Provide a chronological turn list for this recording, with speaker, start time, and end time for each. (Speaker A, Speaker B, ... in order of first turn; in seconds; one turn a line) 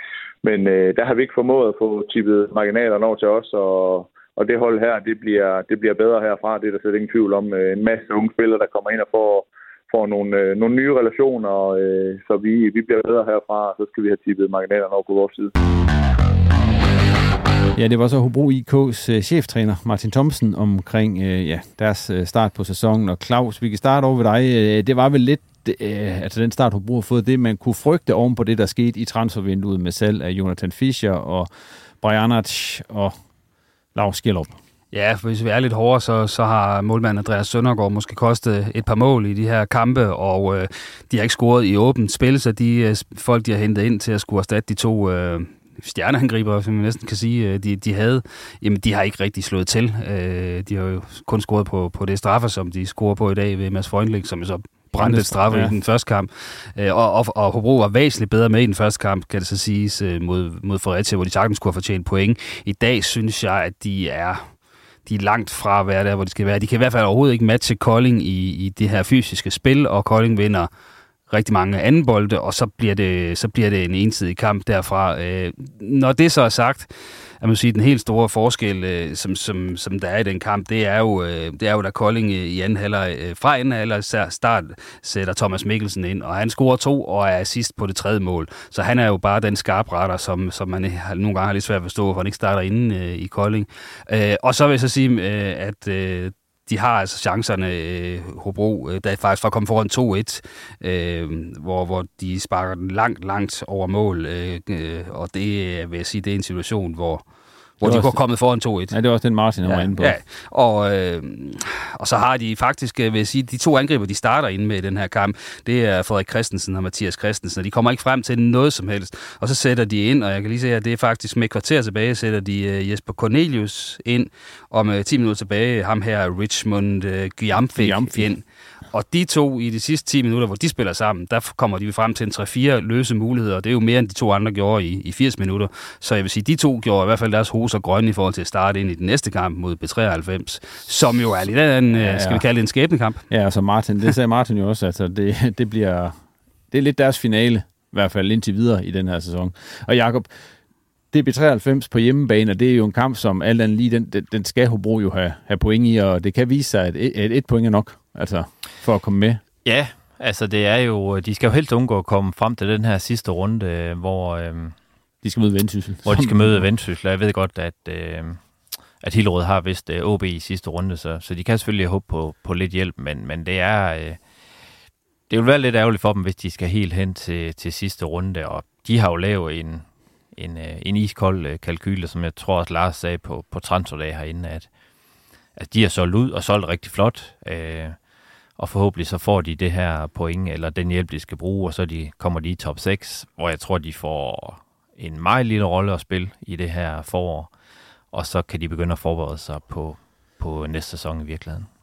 Speaker A: 0.4-15.5
Speaker B: 17.7-31.5
Speaker B: 32.0-33.1
Speaker B: 33.9-34.5
Speaker C: 34.9-70.7
Speaker B: 54.9-55.8
Speaker C: 71.3-143.2
Speaker B: 107.8-110.2
Speaker B: 127.7-128.3
Speaker B: 141.9-142.4
Speaker B: 143.3-146.2
Speaker B: 146.7-150.3
Speaker B: 151.1-159.4
Speaker D: 159.6-164.7
Speaker B: 165.2-166.7
Speaker D: 166.1-168.4
Speaker D: 169.0-174.2
Speaker D: 175.3-184.7
Speaker D: 185.6-188.0
Speaker D: 188.6-197.5
Speaker D: 198.1-201.7